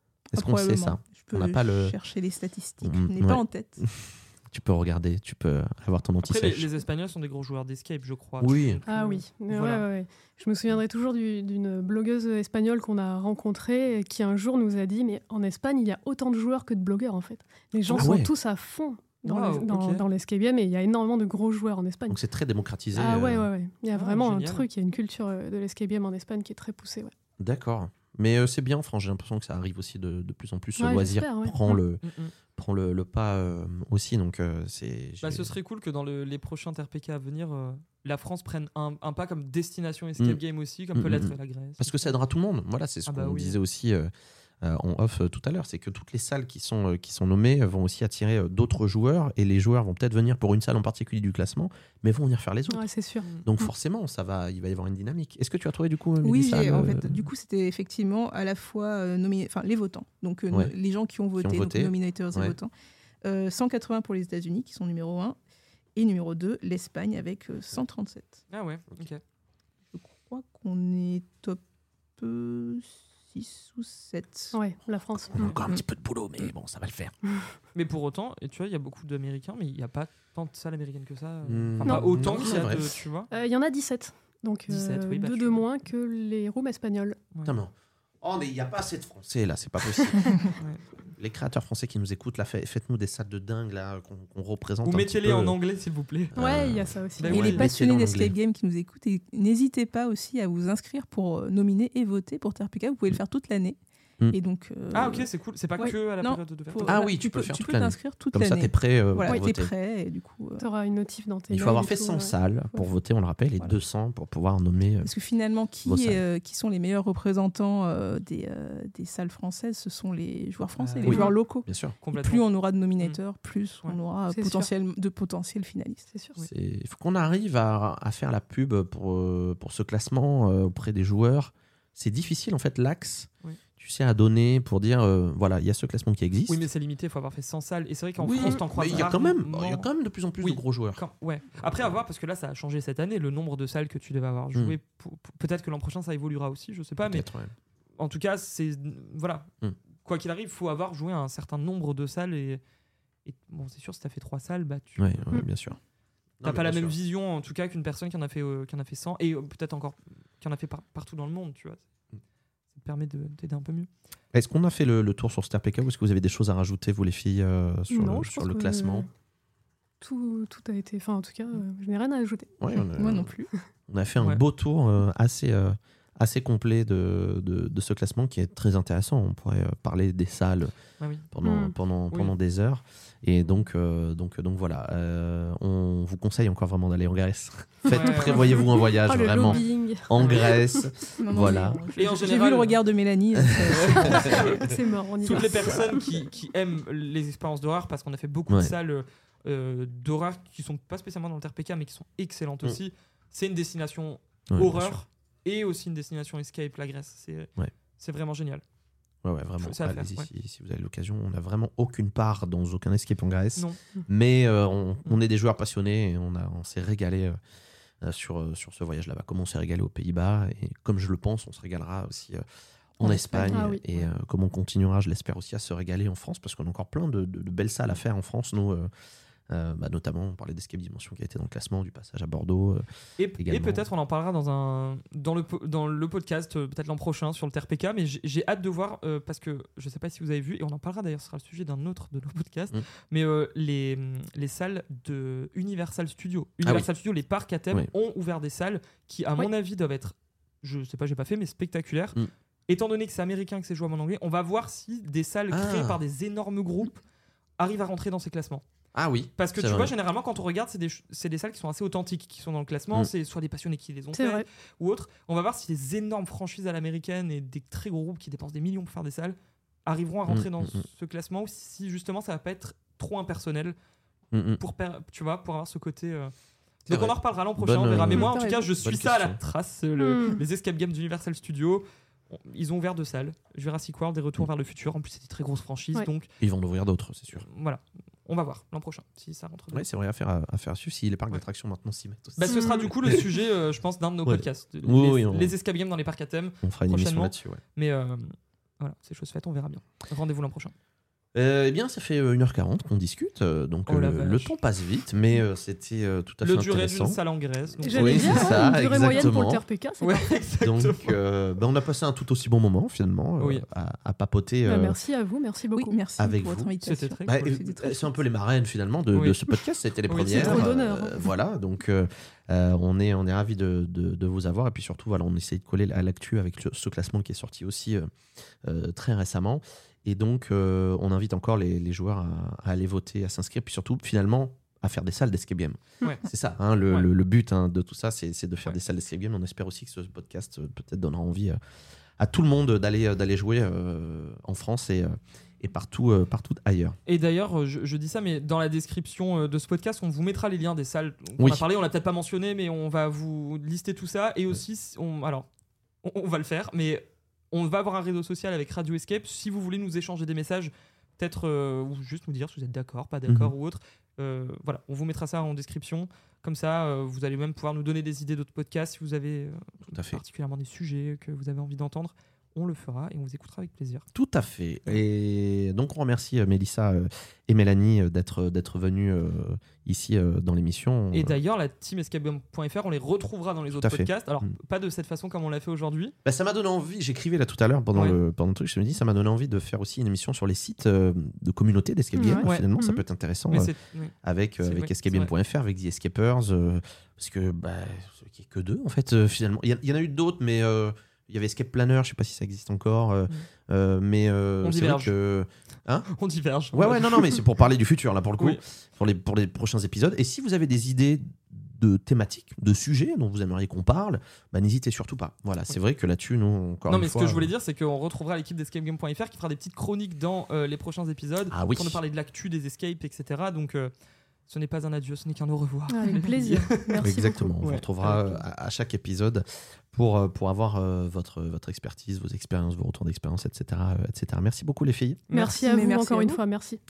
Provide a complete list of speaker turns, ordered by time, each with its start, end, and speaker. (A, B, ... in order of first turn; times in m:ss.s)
0:00.3-0:03.8 A
0:00.3-0:02.0 B
0:02.8-0:06.7 B
0:06.2-0:09.9 C
0:08.4-0:08.8 B
0:08.9-0:22.2 D
0:17.9-0:18.2 C
0:17.9-0:18.3 B
0:19.2-0:20.0 C
0:22.1-0:23.5 B
0:23.0-0:27.1 D
0:23.9-0:24.6 C
0:27.4-0:32.0 B
0:30.8-0:31.8 D
0:32.0-0:32.3 C
0:32.5-0:35.5 B
0:35.2-0:42.0 C
0:40.9-0:52.9 B
0:43.1-0:43.6 C
0:52.7-0:53.7 D
0:53.4-0:57.3 B
0:56.2-1:02.7 A
1:01.4-1:02.5 B
1:03.2-1:05.4 A
1:06.0-1:08.4 A
1:08.5-1:09.2 C
1:09.9-1:11.6 A
1:12.2-1:14.6 A
1:14.5-1:15.6 D
1:15.3-1:17.2 B
1:17.7-1:23.3 C
1:21.5-1:22.9 B
1:21.8-1:22.6 D
1:23.3-1:27.2 D
1:24.7-1:25.7 C
1:27.4-1:30.5 B
1:30.6-1:30.9 C
1:31.2-1:35.6 B
1:34.8-1:36.4 C
1:36.3-1:38.3 B
1:36.4-1:37.6 D
1:37.2-1:37.6 C
1:37.3-1:43.8 A
1:44.3-1:45.3 A
1:44.9-1:47.0 C
1:45.9-1:50.7 A
1:46.8-1:49.7 B
1:50.6-1:52.9 D
1:51.5-1:55.1 B
1:55.0-2:06.1 A
1:55.8-1:56.2 B
2:00.8-2:01.3 C
2:01.0-2:02.0 B
2:01.1-2:01.3 D
2:02.0-2:02.4 C
2:04.3-2:04.7 D
2:06.1-2:06.4 D
2:06.5-2:16.7 B
2:16.5-2:19.9 C
2:18.2-2:21.0 B
2:20.4-2:27.3 C
2:21.6-2:21.9 B
2:27.0-2:27.5 B
2:28.0-2:29.5 C
2:30.0-2:32.6 C
2:33.2-2:35.3 C
2:35.0-2:35.8 B
2:36.4-2:37.0 B
2:36.4-2:41.8 C
2:42.7-2:43.9 C
2:44.3-2:49.1 B
2:47.9-2:49.1 D
2:50.0-2:52.6 D
2:52.6-2:53.3 B
2:53.0-2:53.5 A
2:53.9-3:00.7 B
3:01.0-3:01.3 C
3:01.3-3:11.8 B
3:01.4-3:01.8 D
3:07.9-3:08.7 C
3:07.9-3:11.1 D
3:09.4-3:10.5 C
3:11.2-3:14.5 A
3:12.0-3:12.8 C
3:13.4-3:14.5 B
3:13.8-3:14.6 C
3:14.0-3:16.0 D
3:15.2-3:28.6 C
3:18.5-3:18.7 B
3:24.5-3:25.0 B
3:29.2-3:37.4 B
3:29.6-3:30.3 C
3:38.0-3:42.4 B
3:43.0-3:48.9 B
3:43.0-3:43.8 D
3:49.5-3:52.8 B
3:53.2-4:17.0 C
3:53.4-3:53.8 B
4:06.6-4:06.9 B
4:15.5-4:16.0 B
4:17.6-4:18.6 C
4:18.9-4:19.9 B
4:19.4-4:33.8 C
4:24.1-4:24.5 D
4:30.3-4:30.8 B
4:34.3-4:34.6 B
4:34.6-4:36.3 C
4:36.9-4:46.3 C
4:36.9-4:39.5 B
4:38.0-4:38.7 A
4:40.0-4:40.4 D
4:46.4-4:47.4 B
4:47.4-4:49.9 C
4:49.7-4:53.2 B
4:52.4-5:00.7 C
4:52.4-4:52.9 D
4:54.2-4:55.5 B
4:56.6-4:57.6 B
5:01.3-5:07.2 B
5:03.9-5:04.6 C
5:06.4-5:08.7 C
5:07.8-5:09.6 B
5:07.8-5:10.4 D
5:10.0-5:11.2 C
5:10.6-5:15.0 B
5:13.4-5:13.6 C
5:14.6-5:16.0 D
5:15.7-5:18.1 A
5:16.2-5:16.7 B
5:16.8-5:17.5 C
5:17.2-5:28.1 B
5:19.1-5:19.4 C
5:20.1-5:20.6 C
5:20.3-5:21.3 D
5:28.6-5:41.6 B
5:42.2-5:47.0 B
5:47.1-5:55.5 C
5:51.4-5:51.6 B
5:56.0-6:14.0 C
6:03.3-6:03.5 B
6:09.9-6:10.2 B
6:14.1-6:21.4 B
6:21.1-6:26.2 C
6:23.7-6:24.5 B
6:26.2-6:46.1 B
6:27.9-6:28.2 C
6:32.2-6:33.0 D
6:32.4-6:32.7 C
6:33.5-6:35.3 C
6:44.6-6:45.2 C
6:46.0-6:47.4 C
6:46.7-6:57.5 B
6:56.9-7:03.9 C
7:01.5-7:02.0 B
7:04.5-7:08.4 C
7:05.9-7:07.5 D
7:07.0-7:15.2 B
7:15.3-7:15.6 C
7:15.3-7:16.8 D
7:15.4-7:16.4 A